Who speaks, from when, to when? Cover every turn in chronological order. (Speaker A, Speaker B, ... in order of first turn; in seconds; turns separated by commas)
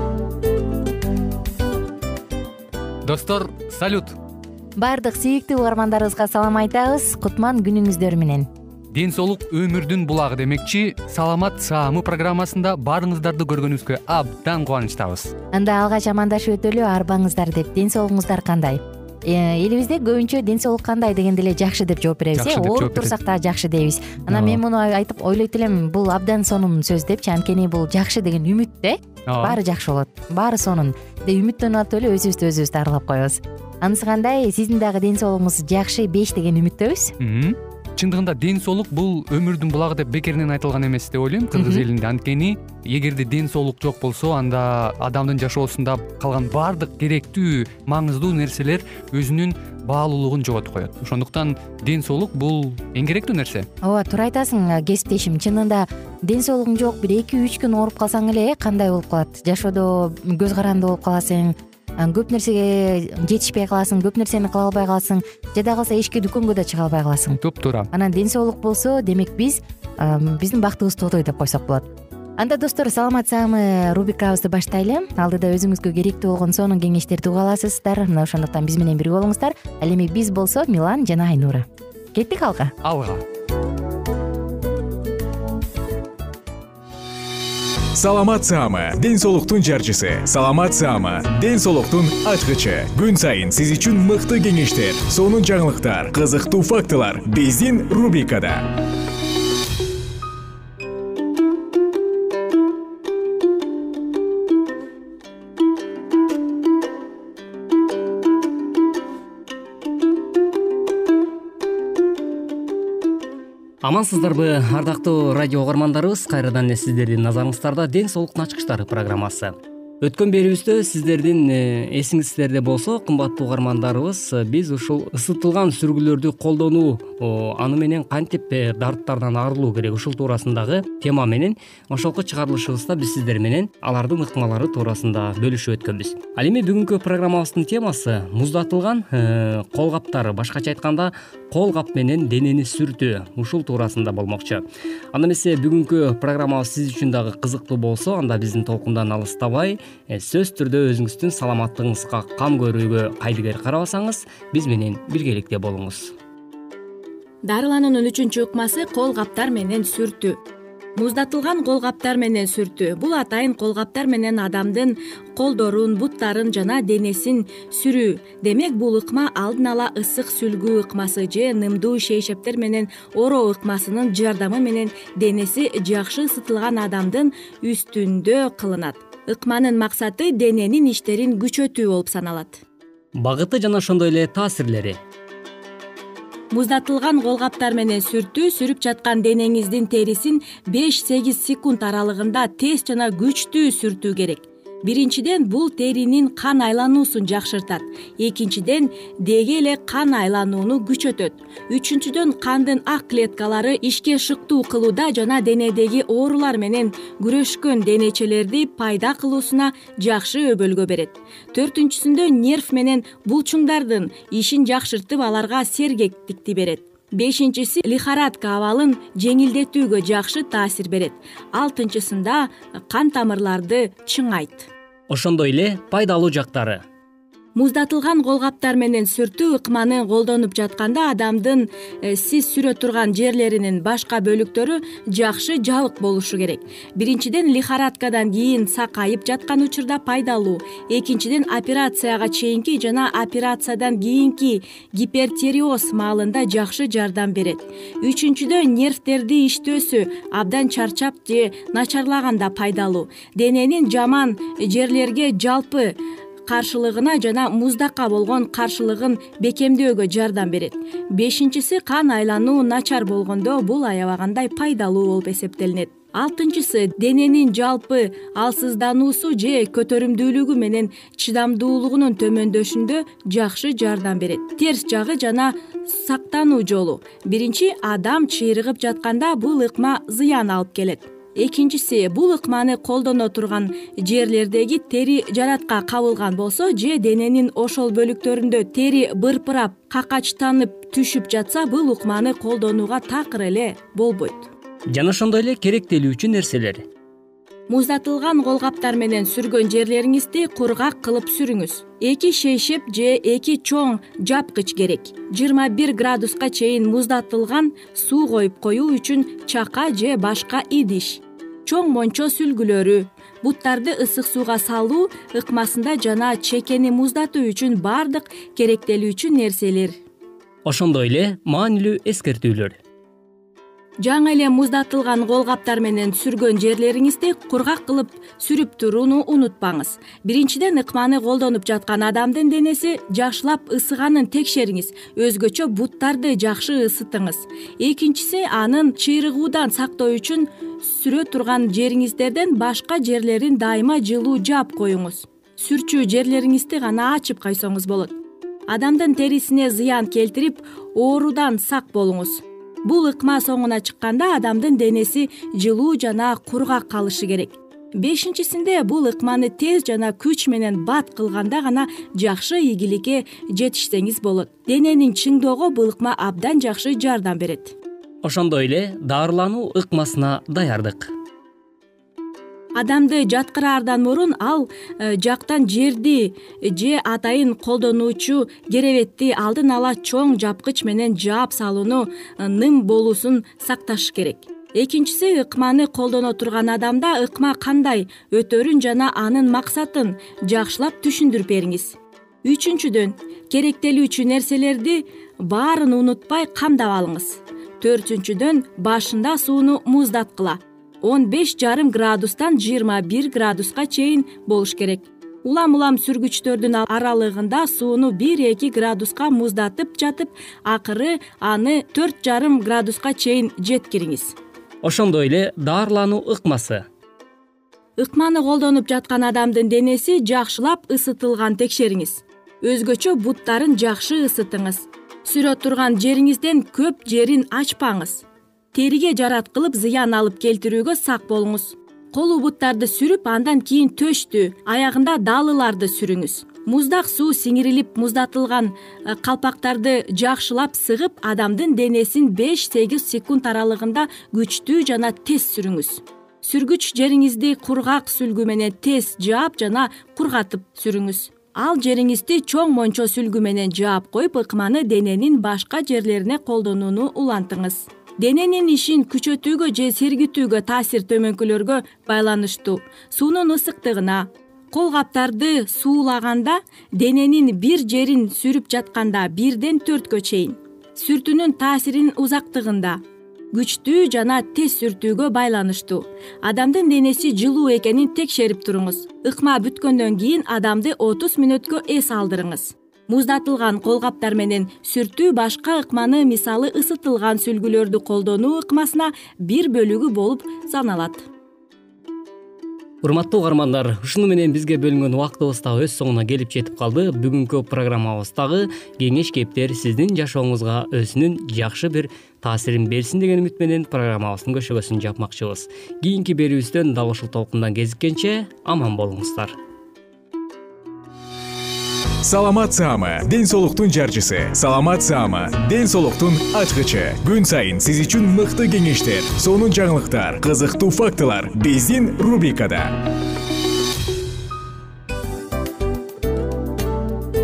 Speaker A: 3.0-4.2, Speaker B: 4.8-8.5, Speaker A: 8.9-15.3, Speaker B: 15.5-37.1, Speaker A: 22.3-23.1, Speaker A: 24.3-24.6, Speaker A: 29.3-29.6, Speaker A: 37.2-53.7, Speaker B: 41.5-41.9, Speaker B: 53.8-82.8, Speaker A: 67.4-67.9, Speaker A: 82.8-83.2, Speaker C: 87.9-98.7, Speaker D: 113.8-156.1, Speaker E: 157.4-160.4, Speaker E: 161.0-182.6, Speaker D: 183.2-185.0, Speaker E: 186.5-224.7, Speaker D: 225.1-226.8, Speaker E: 227.6-294.5, Speaker D: 294.9-296.8, Speaker E: 297.7-320.0, Speaker D: 320.6-322.8, Speaker E: 324.0-348.2, Speaker E: 348.7-367.8, Speaker D: 368.2-371.1, Speaker E: 372.8-414.4, Speaker D: 414.8-416.8, Speaker E: 418.0-473.0, Speaker E: 473.5-491.3, Speaker D: 493.0-509.6, Speaker C: 512.2-522.9